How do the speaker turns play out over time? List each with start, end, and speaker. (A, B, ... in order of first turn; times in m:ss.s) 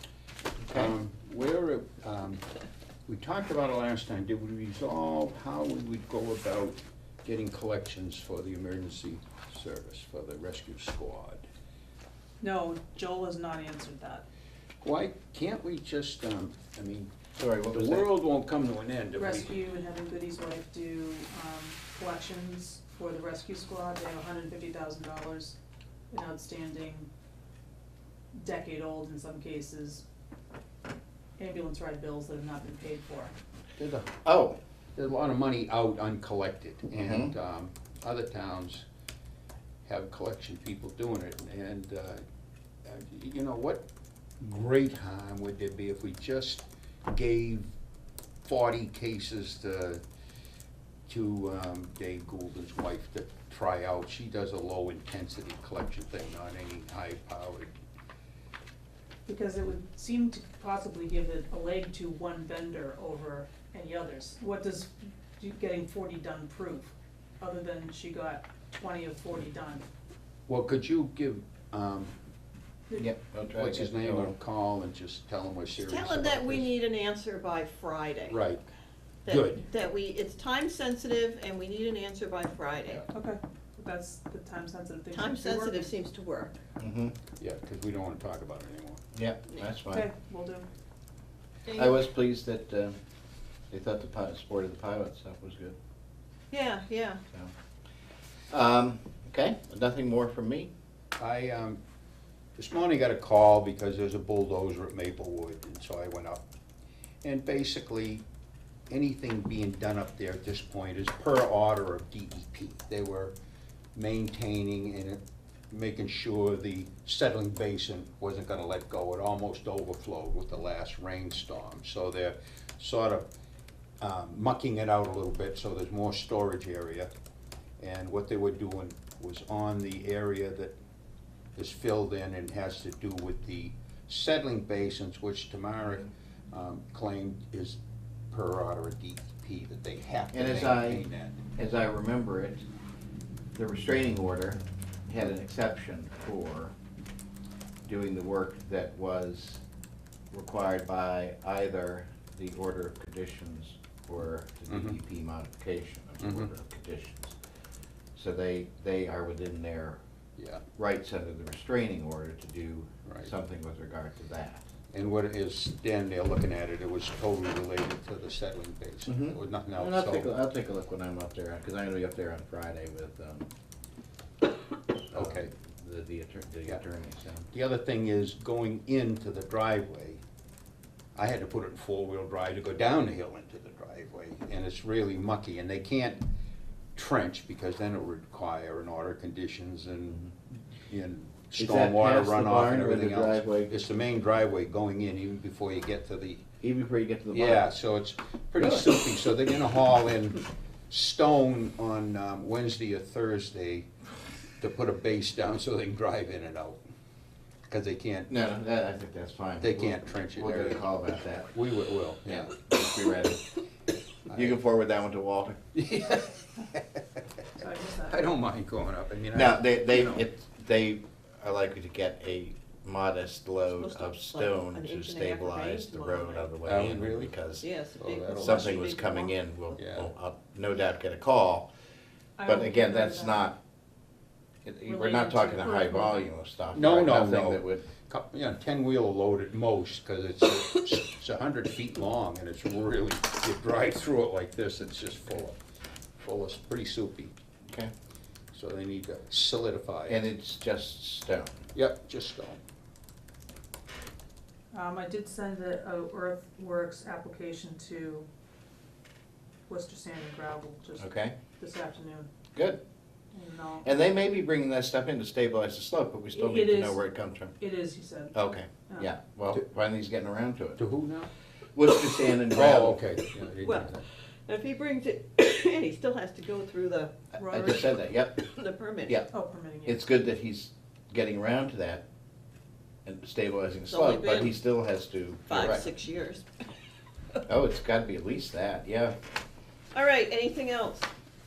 0:00.6-0:00.9 A
0:00.7-0:02.4 B
0:03.1-0:11.5 B
0:12.4-0:14.2 C
0:14.8-0:17.1 B
0:17.4-0:18.1 A
0:17.7-0:19.5 B
0:19.2-0:25.6 C
0:26.1-0:27.1 C
0:28.3-0:30.0 C
0:31.4-0:33.3 C
0:33.8-0:34.2 B
0:34.2-0:34.6 A
0:34.9-0:38.8 B
0:36.9-0:37.3 A
0:39.8-0:42.2 B
0:42.8-0:43.8 B
0:44.4-0:47.7 B
0:48.4-0:50.0 B
0:51.1-0:57.7 B
0:59.2-1:09.8 C
1:10.5-1:12.1 B
1:13.0-1:14.3 A
1:13.5-1:16.7 B
1:15.8-1:18.4 D
1:18.3-1:18.6 B
1:19.2-1:23.0 D
1:19.3-1:19.6 B
1:23.1-1:25.9 C
1:25.1-1:26.6 D
1:26.8-1:27.1 A
1:27.4-1:29.0 B
1:29.1-1:30.1 A
1:29.9-1:30.7 C
1:31.6-1:31.9 D
1:31.7-1:33.0 A
1:33.7-1:35.8 A
1:36.5-1:37.2 D
1:38.5-1:40.7 A
1:41.2-1:41.8 B
1:42.6-1:46.4 B
1:47.2-1:48.2 B
1:48.9-1:53.3 B
1:53.9-1:55.2 B
1:55.7-2:03.3 B
2:04.0-2:07.1 B
2:07.8-2:10.7 B
2:11.5-2:17.8 B
2:18.3-2:21.4 B
2:20.3-2:21.0 A
2:21.5-2:22.6 A
2:23.5-2:26.7 A
2:27.8-2:29.6 A
2:30.3-2:37.4 A
2:34.7-2:34.9 B
2:36.2-2:36.5 B
2:38.1-2:40.0 A
2:40.4-2:40.6 B
2:40.8-2:44.6 A
2:44.9-2:50.3 B
2:49.0-2:53.5 A
2:55.1-2:57.5 A
2:55.1-2:55.5 B
2:57.5-3:00.2 B
3:01.2-3:06.2 B
3:07.0-3:10.3 B
3:10.9-3:16.4 B
3:11.6-3:13.8 A
3:16.6-3:17.6 A
3:17.3-3:23.9 B
3:18.6-3:18.9 A
3:24.6-3:26.8 B
3:27.7-3:28.3 B
3:28.3-3:31.5 A
3:29.6-3:30.8 B
3:31.5-3:32.5 B
3:32.3-3:33.5 A
3:34.3-3:35.6 A
3:35.7-3:37.0 B
3:37.6-3:38.2 C
3:38.1-3:40.2 B
3:39.3-3:47.7 A
3:43.7-3:46.5 D
3:46.6-3:47.3 B
3:47.6-3:49.3 D
3:48.0-3:48.9 B
3:48.3-3:51.7 A
3:49.8-3:50.1 B
3:52.4-3:53.5 C
3:52.4-3:53.6 A
3:54.6-3:57.8 A
3:54.9-3:56.2 C
3:56.7-4:05.6 B
4:06.2-4:07.3 B
4:08.5-4:10.2 B
4:10.1-4:11.7 A
4:11.7-4:12.6 B
4:14.7-4:18.3 C
4:19.7-4:22.3 C
4:21.0-4:21.3 A
4:22.5-4:22.8 A
4:23.3-4:23.8 C
4:23.8-4:27.5 A
4:26.3-4:27.0 C
4:27.6-4:28.4 C
4:28.3-4:30.8 A
4:30.8-4:31.3 B
4:31.7-4:33.0 A
4:32.5-4:34.0 B
4:33.6-4:33.9 D
4:34.5-4:37.2 D
4:37.4-4:37.9 C
4:37.4-4:38.5 A
4:38.4-4:39.2 D
4:39.3-4:40.0 C
4:39.8-4:42.0 A
4:43.0-4:45.9 A
4:43.9-4:44.6 D
4:45.5-4:46.5 D
4:47.5-4:49.1 A
4:49.9-4:51.1 D